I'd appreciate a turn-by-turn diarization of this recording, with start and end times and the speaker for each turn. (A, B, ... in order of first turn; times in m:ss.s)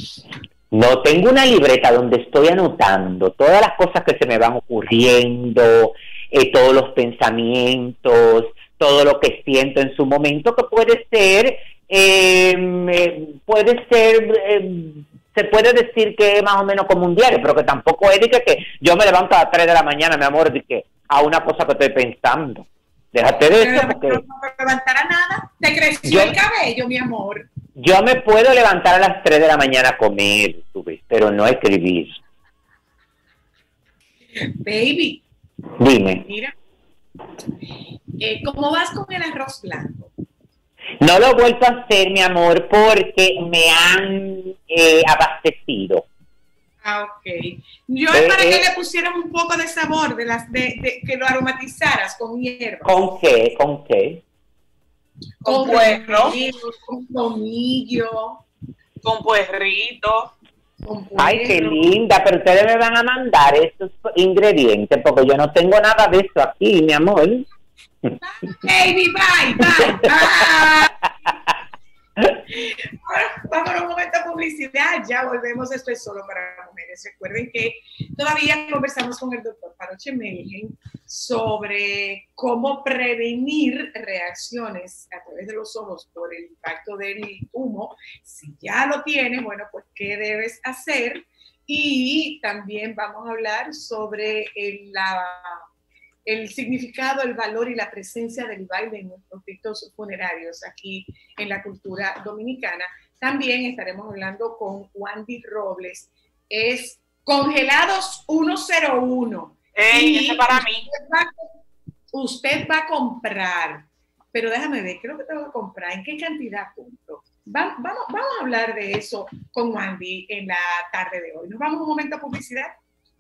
0:00.7-0:24.2 A
0:23.6-0:27.5 B
0:26.0-0:26.4 A
0:27.8-0:32.2 A
0:34.4-0:35.2 B
0:35.8-0:36.2 A
0:36.2-0:36.6 B
0:38.2-0:40.1 B
0:41.0-0:46.1 A
0:46.8-0:53.1 B
0:48.1-0:48.7 A
0:52.8-0:54.2 A
0:55.4-0:56.3 C
0:55.4-0:58.4 B
0:59.0-1:00.3 C
1:00.8-1:01.8 B
1:01.2-1:07.5 A
1:08.2-1:10.9 B
1:10.0-1:10.5 A
1:12.5-1:35.6 B
1:36.2-1:51.5 B
1:49.8-1:50.9 C
1:52.1-2:02.7 B